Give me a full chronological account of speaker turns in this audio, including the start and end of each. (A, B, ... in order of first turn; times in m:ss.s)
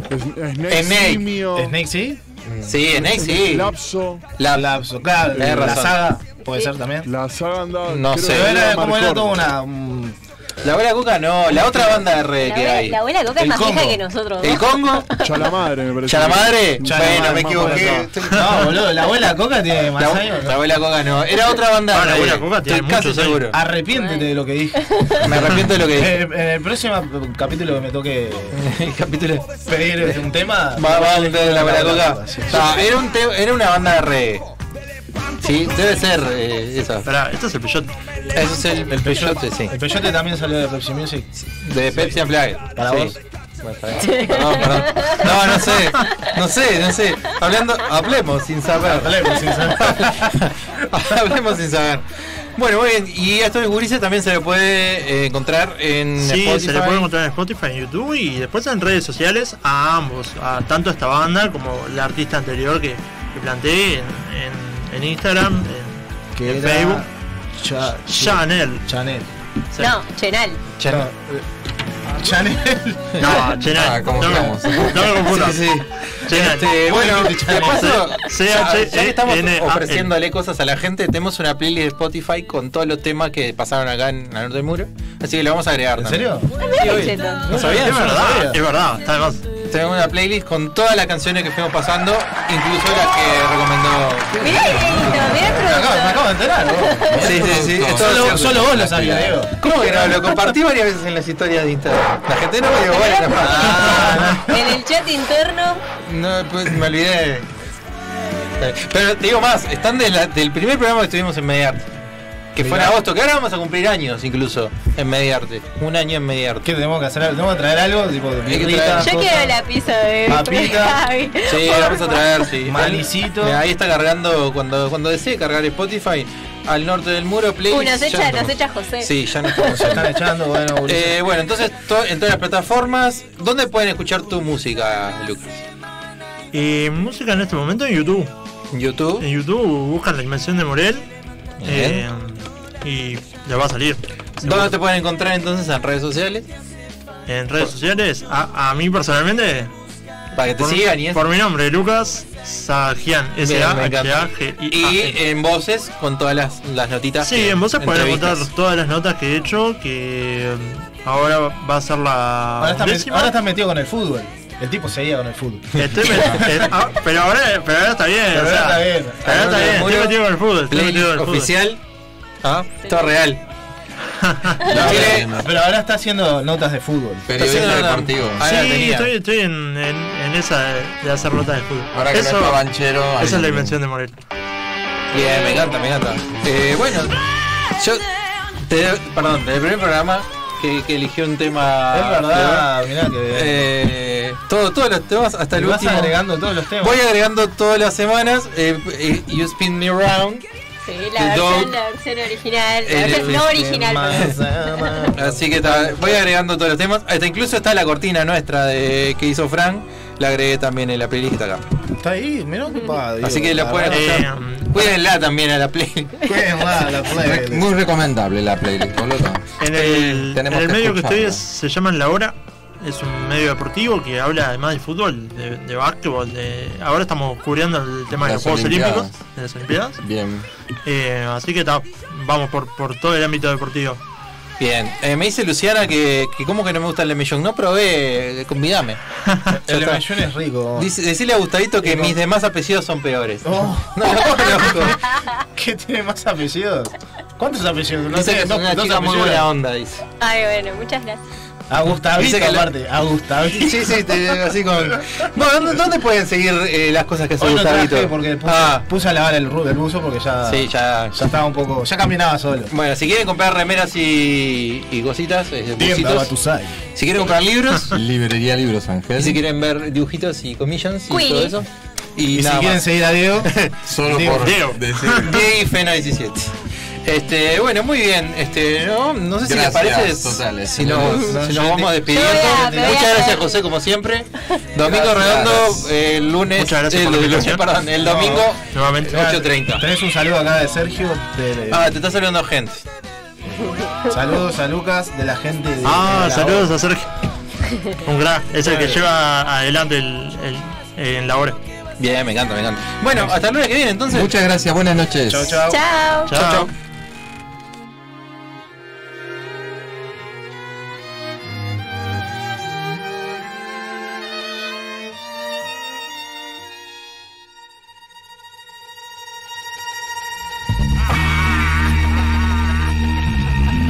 0:00.1-0:01.8 A
0:00.7-0:01.3 B
0:01.6-0:02.2 C
0:02.4-0:02.8 D
0:02.6-0:03.7 B
0:03.0-0:04.2 A
0:04.4-0:04.7 B
0:04.5-0:07.1 C
0:05.4-0:05.8 A
0:05.4-0:06.0 B
0:06.4-0:06.7 E
0:07.0-0:09.4 A
0:07.9-0:08.6 B
0:08.3-0:10.2 C
0:10.6-0:15.1 B
0:12.4-0:15.3 E
0:15.2-0:18.1 A
0:16.1-0:18.9 B
0:16.8-0:20.6 C
0:17.9-0:18.8 F
0:20.0-0:23.6 B
0:21.9-0:23.5 F
0:23.5-0:28.6 C
0:23.9-0:25.3 E
0:25.2-0:26.2 B
0:28.5-0:34.4 B
0:29.7-0:32.8 C
0:35.4-0:37.1 B
0:37.0-0:37.9 F
0:38.3-0:39.8 B
0:38.9-0:41.3 C
0:41.4-0:52.0 B
0:41.9-0:43.2 C
0:44.0-0:45.3 E
0:45.9-0:46.3 E
0:48.8-0:50.4 C
0:52.6-0:57.1 B
0:56.2-1:07.0 F
1:06.4-1:09.3 C
1:08.1-1:08.9 F
1:09.8-1:10.6 E
1:10.8-1:11.1 B
1:10.9-1:11.4 C
1:12.1-1:13.4 C
1:13.2-1:15.7 F
1:13.7-1:15.2 D
1:15.2-1:28.2 B
1:16.3-1:16.7 F
1:16.6-1:18.0 C
1:17.7-1:20.1 F
1:26.0-1:26.5 C
1:26.6-1:27.4 E
1:27.5-1:28.6 C
1:27.8-1:29.4 F
1:29.7-1:35.5 B
1:34.4-1:37.2 E
1:34.9-1:35.2 D
1:35.0-1:37.3 C
1:37.1-1:39.4 D
1:37.2-1:38.6 B
1:37.9-1:40.5 C
1:39.6-1:44.3 B
1:42.9-1:45.8 E
1:43.6-1:44.8 C
1:43.9-1:44.3 F
1:46.0-1:47.5 B
1:48.6-1:51.9 B
1:52.6-1:56.7 B
1:52.6-1:53.0 C
1:56.6-1:59.6 C
1:58.4-1:59.1 B
1:59.0-2:02.3 E
2:00.3-2:01.0 C
2:01.5-2:10.1 B
2:02.6-2:03.6 C
2:07.7-2:10.0 E
2:09.7-2:11.2 C
2:10.9-2:15.7 B
2:16.5-2:18.3 F
2:18.7-2:19.3 B
2:19.2-2:21.1 F
2:21.6-2:22.1 B
2:21.6-2:24.8 F
2:24.4-2:26.4 B
2:27.3-2:29.7 F
2:30.4-2:31.2 B
2:30.4-2:35.2 F
2:33.4-2:38.5 B
2:37.2-2:43.4 F
2:42.6-2:46.4 C
2:45.8-2:46.5 B
2:45.8-2:51.5 F
2:48.3-2:49.6 C
2:49.2-2:50.2 B
2:50.7-2:51.8 B
2:52.4-2:53.4 B
2:52.8-2:53.1 E
2:54.2-2:54.6 F
2:54.6-2:55.5 D
2:54.6-2:55.5 B
2:54.7-2:57.8 C
2:57.3-2:58.5 D
2:57.4-2:59.1 B
2:58.4-3:02.6 F
3:01.9-3:03.8 D
3:03.2-3:04.2 F
3:05.1-3:07.2 B
3:07.8-3:08.0 B
3:08.7-3:12.7 B
3:11.9-3:13.7 C
3:13.3-3:16.2 B
3:15.5-3:17.0 C
3:16.8-3:20.4 B
3:20.8-3:24.9 E
3:21.2-3:21.8 B
3:22.9-3:23.4 B
3:23.0-3:26.3 C
3:25.2-3:31.6 B
3:32.0-3:34.3 C
3:33.2-3:36.3 B
3:33.9-3:34.7 F
3:36.2-3:37.6 C
3:37.1-3:41.5 D
3:39.6-3:50.0 F
3:48.2-3:49.2 D
3:50.0-3:50.5 D
3:50.8-3:54.0 F
3:54.6-3:59.0 B
3:59.3-3:59.6 F
3:59.5-4:00.9 C
3:59.7-4:00.0 B
4:00.8-4:05.0 B
4:01.8-4:02.2 C
4:03.4-4:04.6 C
4:05.6-4:09.5 C
4:08.1-4:10.0 B
4:10.2-4:11.2 E
4:11.7-4:14.4 C
4:11.8-4:12.7 B
4:13.5-4:18.9 B
4:15.0-4:15.2 C
4:17.4-4:22.7 C
4:20.5-4:21.2 B
4:22.7-4:26.3 B
4:25.8-4:26.8 C
4:26.9-4:27.9 B
4:27.9-4:29.4 D
4:29.2-4:32.9 B
4:31.1-4:31.6 E
4:32.3-4:34.5 C
4:33.4-4:33.8 B
4:33.8-4:35.3 D
4:34.4-4:35.3 F
4:35.2-4:36.5 B
4:37.0-4:49.8 B
4:39.4-4:41.4 D
4:41.1-4:42.9 C
4:42.1-4:43.6 E
4:44.8-4:45.9 D
4:46.5-4:47.7 F
4:48.0-4:48.5 C
4:48.7-4:49.3 F
4:49.1-4:51.9 C
4:51.7-4:52.8 B
4:54.1-4:56.7 C
4:55.8-4:57.2 F
4:57.7-4:58.0 E
4:58.0-5:01.6 F
4:58.6-4:59.0 C
5:02.0-5:04.3 B
5:04.1-5:05.6 D
5:05.3-5:05.8 C
5:05.7-5:06.3 E
5:06.3-5:06.7 F
5:06.3-5:06.7 B